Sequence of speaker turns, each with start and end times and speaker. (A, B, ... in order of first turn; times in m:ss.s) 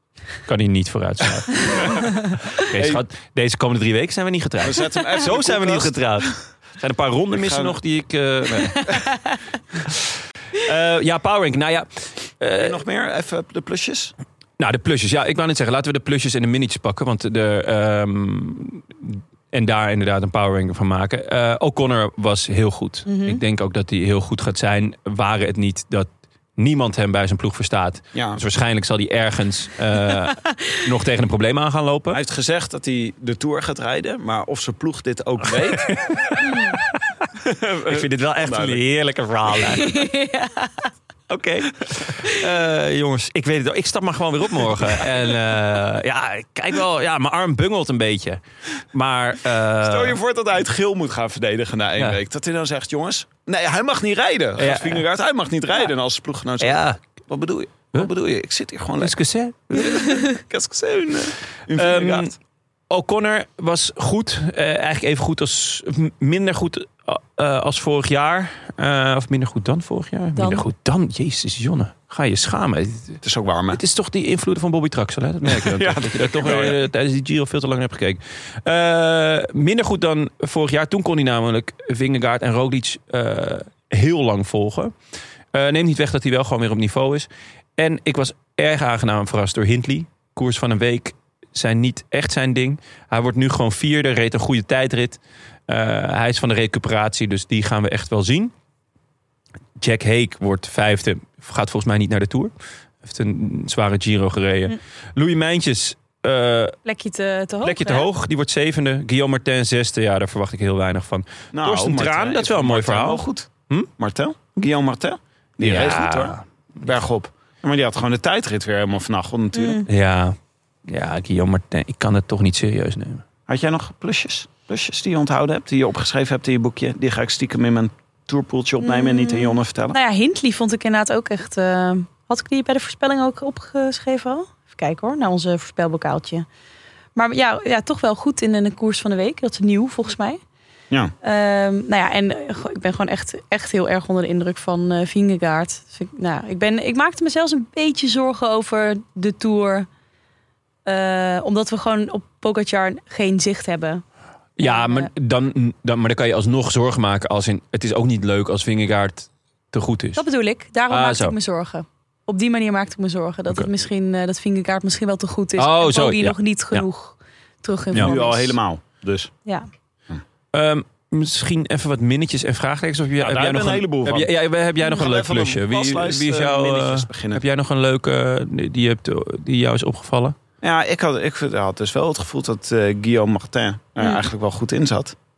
0:00.4-0:08.9 A
0:01.7-0:02.1 B
0:02.7-0:03.0 B
0:04.6-0:06.4 B
0:07.3-0:07.8 B
0:08.5-0:09.0 B
0:08.9-0:09.3 C
0:10.5-0:12.8 A
0:12.6-0:14.1 B
0:14.6-0:32.2 A
0:23.0-0:23.4 C
0:28.1-0:28.4 B
0:30.4-0:30.8 C
0:32.1-0:35.9 B
0:35.4-0:37.0 A
0:37.4-0:38.8 B
0:37.9-0:40.1 A
0:39.7-0:40.9 C
0:41.3-0:48.4 A
0:48.9-0:50.2 A
0:49.8-0:59.1 B
0:54.6-0:55.0 A
0:56.6-0:57.0 A
0:59.0-1:00.0 A
0:59.7-1:02.3 B
1:01.7-1:02.3 A
1:02.9-1:24.9 A
1:10.4-1:10.6 C
1:13.2-1:13.8 B
1:15.4-1:16.8 B
1:25.5-1:38.5 A
1:39.8-1:42.5 A
1:43.0-1:46.8 A
1:46.8-1:48.1 C
1:47.6-1:53.9 A
1:51.5-1:59.8 B
1:55.6-1:57.0 A
1:59.5-1:59.9 C
1:59.9-2:00.4 A
2:00.9-2:03.2 A
2:03.5-2:10.0 B
2:08.8-2:16.4 C
2:17.1-2:20.4 C
2:21.2-2:29.9 C
2:30.8-2:34.0 C
2:34.6-2:40.2 A
2:34.6-2:35.1 C
2:40.2-2:48.6 C
2:40.9-2:41.3 A
2:45.6-2:46.8 A
2:47.9-2:49.3 B
2:50.5-3:00.4 A
2:53.2-2:54.3 B
2:54.8-2:57.4 B
3:00.6-3:05.1 B